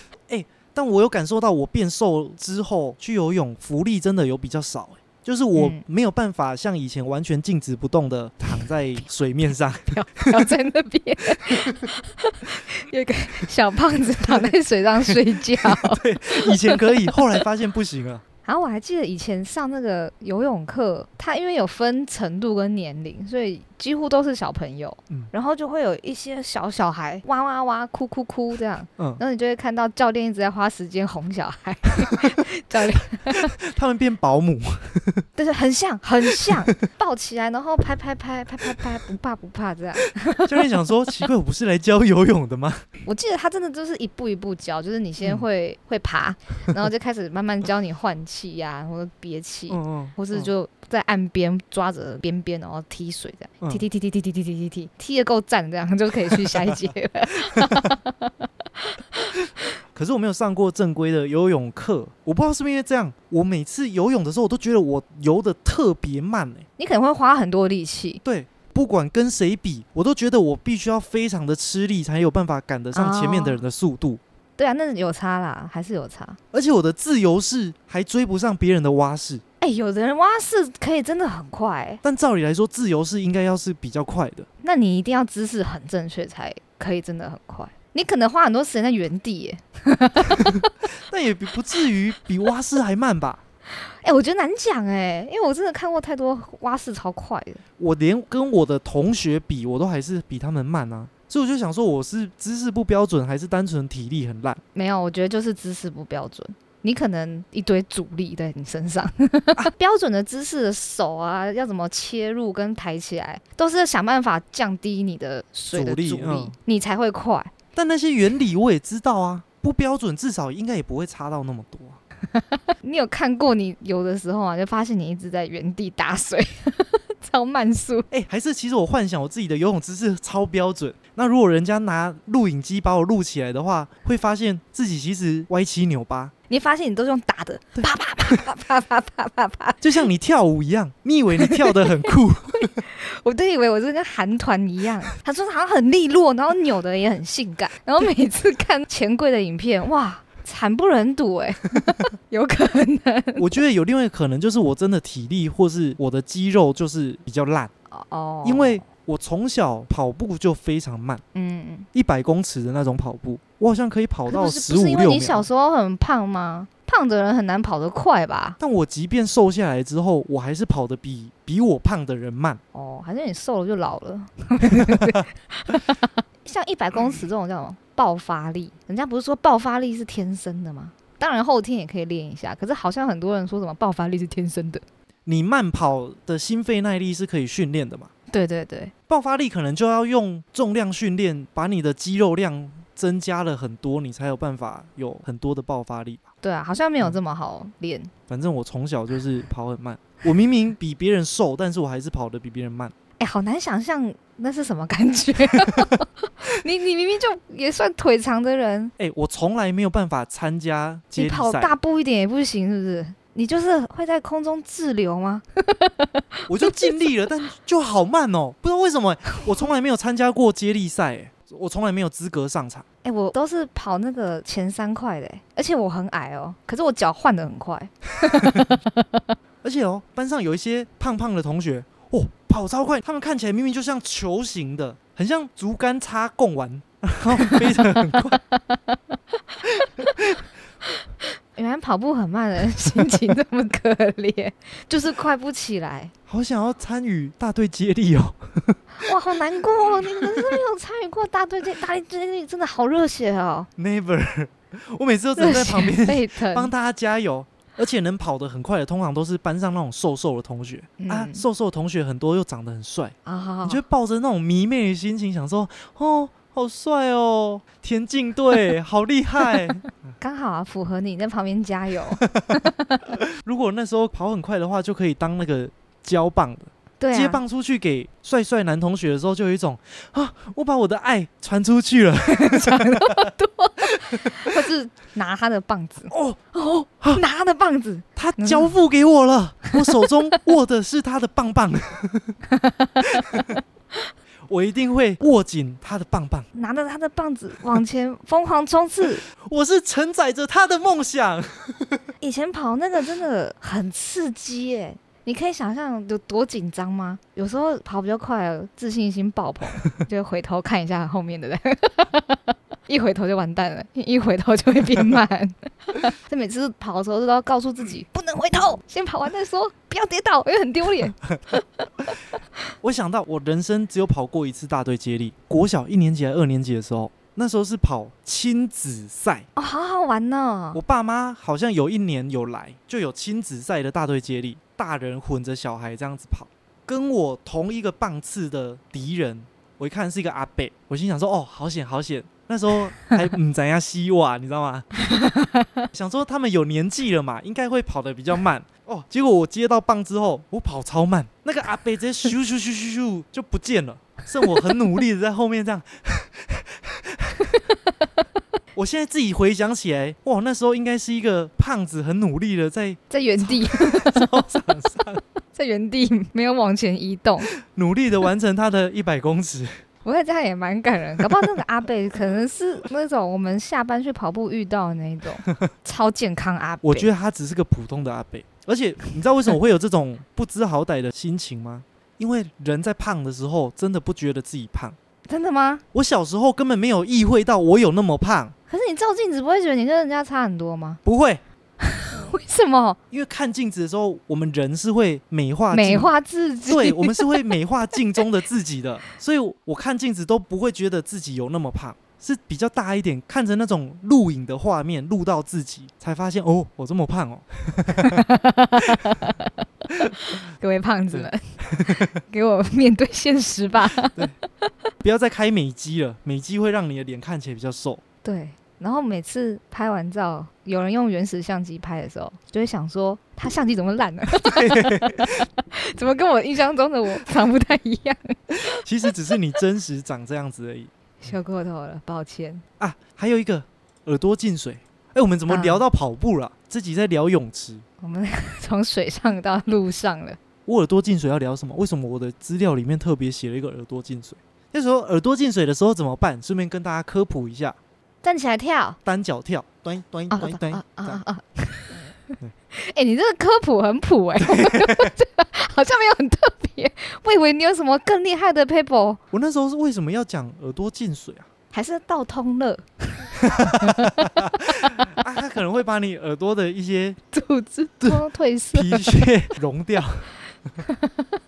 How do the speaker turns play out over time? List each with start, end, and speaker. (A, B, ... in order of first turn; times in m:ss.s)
0:00.3-0:10.5 A
0:05.6-0:05.8 B
0:09.9-0:17.2 B
0:11.5-0:11.8 A
0:14.2-0:18.2 A
0:18.4-0:33.5 B
0:33.3-0:35.2 A
0:35.3-0:40.7 B
0:40.4-0:42.8 A
0:43.0-0:59.4 B
0:49.7-0:50.5 A
0:56.3-0:56.9 A
0:59.9-1:06.6 A
1:06.8-1:08.2 B
1:08.2-1:14.2 A
1:12.9-1:13.6 B
1:14.6-1:16.4 B
1:16.5-1:19.4 A
1:19.6-1:22.0 B
1:22.0-1:24.5 A
1:24.6-1:30.7 B
1:31.1-1:33.4 A
1:34.0-1:37.6 B
1:37.8-1:44.6 A
1:44.7-1:57.5 B
1:55.7-1:56.5 A
1:57.7-2:02.0 A
2:02.3-2:08.1 B
2:08.1-2:16.3 A
2:16.5-2:19.8 B
2:17.8-2:18.4 A
2:19.8-2:22.8 A
2:21.4-2:22.1 B
2:22.7-2:33.4 B
2:33.4-2:37.7 A
2:37.9-2:38.9 B
2:38.4-2:41.2 A
2:41.3-2:41.9 B
2:41.9-2:45.5 A
2:44.3-2:48.6 B
2:48.6-2:52.6 A
2:52.7-3:04.8 B
2:54.7-2:55.2 A
3:05.2-3:08.1 A
3:08.3-3:08.9 B
3:09.1-3:16.2 A
3:16.4-3:18.1 B
3:18.3-3:22.9 A
3:23.2-3:28.9 B
3:29.0-3:31.7 A
3:31.2-3:36.9 B
3:36.5-3:42.8 A
3:43.0-3:49.2 B
3:48.3-3:48.8 A
3:49.6-3:58.4 A
3:57.4-3:59.1 B
3:59.8-4:00.4 A
4:01.5-4:06.1 B
4:06.3-4:08.8 A
4:09.0-4:13.7 B
4:13.8-4:29.8 A
4:15.4-4:16.7 B
4:21.0-4:21.4 B
4:23.2-4:23.8 B
4:30.2-4:33.0 B
4:33.3-4:43.3 A
4:37.0-4:37.4 B
4:42.3-4:48.7 B
4:46.1-4:46.4 A
4:48.2-4:52.4 A
4:52.5-4:53.6 B
4:53.2-4:53.5 A
4:54.5-4:56.5 A
4:56.5-4:59.2 B
4:59.4-5:02.0 A
5:02.2-5:22.1 B
5:22.8-5:29.5 A
5:29.6-5:30.8 B
5:30.7-5:44.9 A
5:45.0-5:45.8 B
5:45.9-5:57.6 A
5:58.7-6:05.2 A
6:03.1-6:04.3 B
6:05.5-6:07.5 B
6:07.6-6:09.7 A
6:10.0-6:17.1 B
6:16.8-6:25.0 A
6:25.3-6:25.8 B
6:25.9-6:28.5 A
6:28.7-6:31.0 B
6:31.0-6:31.4 A
6:31.8-6:33.0 B
6:33.1-6:36.1 A
6:35.7-6:37.6 B
6:36.7-6:48.2 A
6:48.0-6:49.5 B
6:49.9-6:50.3 A
6:50.2-6:54.7 B
6:51.1-6:52.1 A
6:55.0-6:58.0 A
6:58.2-7:08.8 B
7:04.3-7:05.4 A
7:08.8-7:11.3 A
7:11.2-7:12.6 B
7:12.8-7:17.8 A
7:15.5-7:15.8 B
7:18.0-7:20.4 B
7:20.6-7:27.8 A
7:28.2-7:29.0 B
7:29.0-7:31.2 A
7:30.3-7:32.1 B
7:32.7-7:39.2 B
7:34.4-7:35.1 A
7:39.3-7:41.5 A
7:41.7-7:44.1 B
7:43.4-7:47.2 A
7:47.3-7:49.3 B
7:48.0-7:50.3 A
7:50.8-7:51.2 B